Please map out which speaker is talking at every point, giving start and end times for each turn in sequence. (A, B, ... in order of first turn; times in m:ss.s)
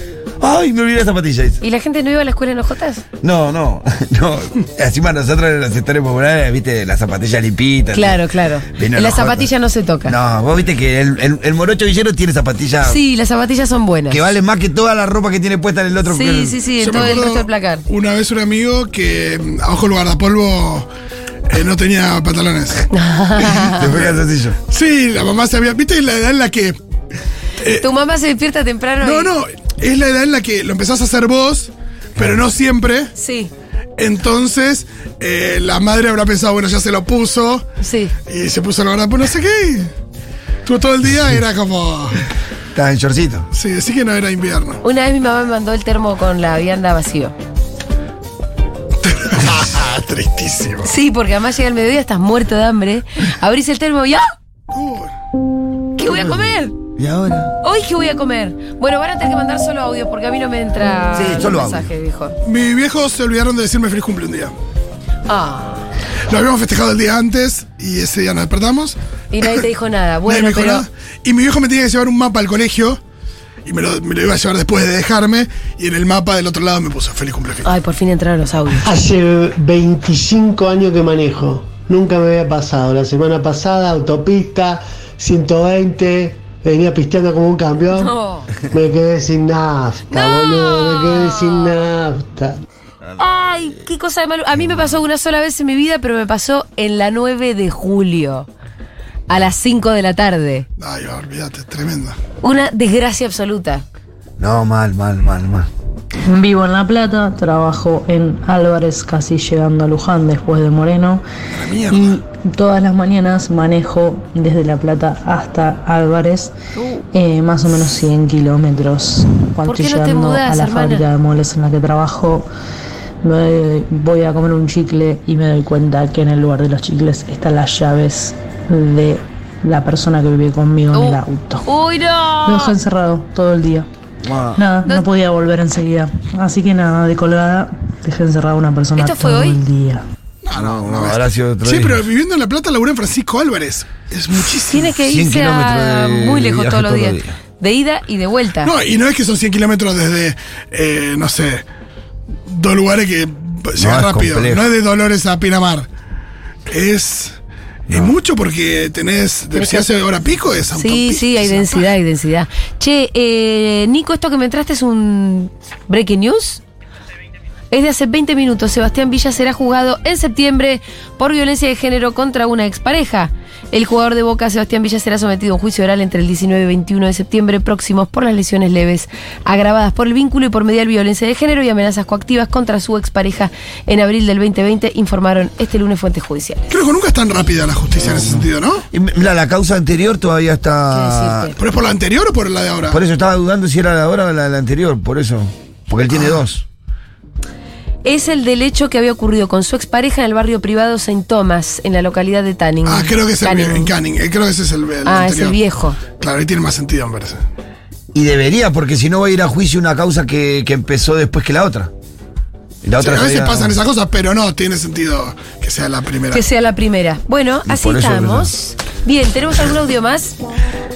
0:00.4-0:01.6 A
0:01.6-0:03.0 B
0:03.2-0:09.5 A
0:07.9-0:10.2 B
0:10.0-0:13.0 A
0:12.8-0:14.2 B
0:14.1-0:16.6 A
0:16.0-0:17.8 B
0:16.8-0:20.9 C
0:21.5-0:24.2 C
0:22.9-0:23.8 B
0:23.7-0:24.6 A
0:24.7-0:26.8 C
0:27.8-0:29.3 B
0:29.0-0:33.1 C
0:33.1-0:33.5 B
0:34.0-0:37.6 C
0:37.8-0:38.1 B
0:38.3-0:39.9 C
0:40.6-0:42.2 C
0:42.7-0:43.5 A
0:43.5-0:44.8 C
0:44.8-0:47.3 B
0:49.0-0:50.9 C
0:50.8-0:54.2 B
0:54.7-0:55.1 C
0:56.0-0:56.7 B
0:57.0-0:57.5 A
0:57.6-1:02.4 B
1:01.1-1:01.9 A
1:02.4-1:04.5 C
1:05.3-1:05.8 B
1:06.3-1:09.6 C
1:09.3-1:10.8 B
1:10.2-1:13.0 C
1:13.6-1:17.7 C
1:17.6-1:18.8 B
1:18.8-1:32.6 D
1:27.9-1:28.5 B
1:30.1-1:31.8 B
1:33.2-1:38.5 B
1:39.3-1:40.7 B
1:40.8-1:42.2 C
1:42.4-1:43.8 B
1:44.4-1:45.7 A
1:46.3-1:51.2 E
1:51.5-1:52.1 C
1:51.9-1:56.5 E
1:56.8-1:57.0 B
1:57.1-2:02.5 E
1:59.6-2:01.0 B
2:03.2-2:11.6 E
2:10.9-2:12.8 B
2:12.4-2:13.9 E
2:14.2-2:14.6 A
2:14.5-2:20.0 E
2:19.0-2:19.6 B
2:20.4-2:24.9 C
2:20.5-2:22.0 A
2:24.7-2:28.7 B
2:25.0-2:27.3 A
2:28.6-2:31.6 C
2:32.5-2:35.9 C
2:33.8-2:34.7 A
2:36.7-2:37.3 C
2:37.9-2:41.9 C
2:39.5-2:39.9 B
2:40.8-2:46.6 B
2:47.7-3:06.7 B
3:06.7-3:08.8 C
3:08.9-3:11.5 A
3:10.9-3:11.5 B
3:11.6-3:13.0 C
3:12.9-3:16.6 A
3:18.0-3:23.9 B
3:22.8-3:25.6 C
3:25.0-3:26.0 B
3:26.2-3:27.4 C
3:28.1-3:31.9 A
3:32.8-3:33.8 A
3:33.0-3:36.4 C
3:36.3-3:40.4 B
3:37.6-3:38.5 A